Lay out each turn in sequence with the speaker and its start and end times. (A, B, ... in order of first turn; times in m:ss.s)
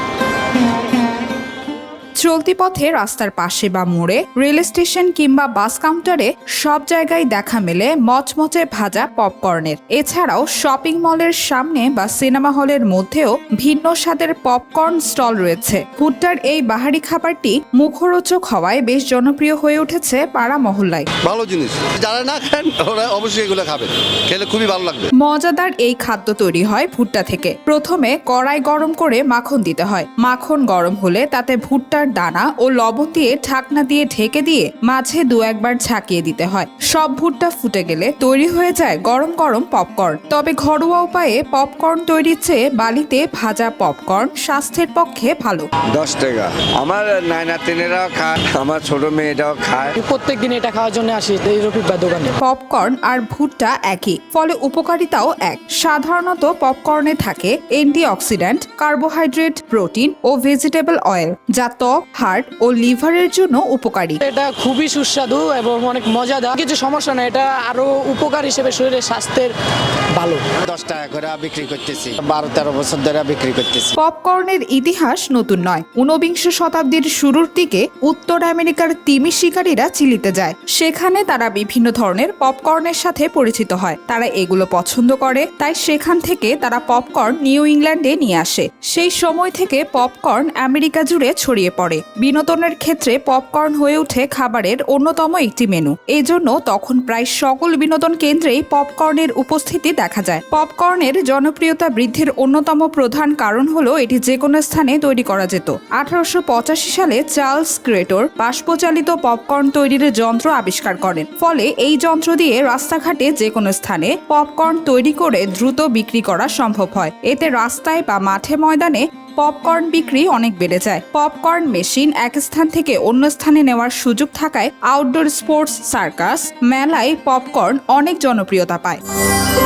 0:02.2-0:21.1 A
0:21.2-0:25.1 B
0:25.2-0:45.7 A
0:45.9-0:50.0 C
0:50.0-0:52.3 D
0:52.4-1:04.2 A
1:04.2-1:09.5 D
1:10.2-1:10.4 D
1:10.6-1:13.9 E
1:14.0-2:09.0 A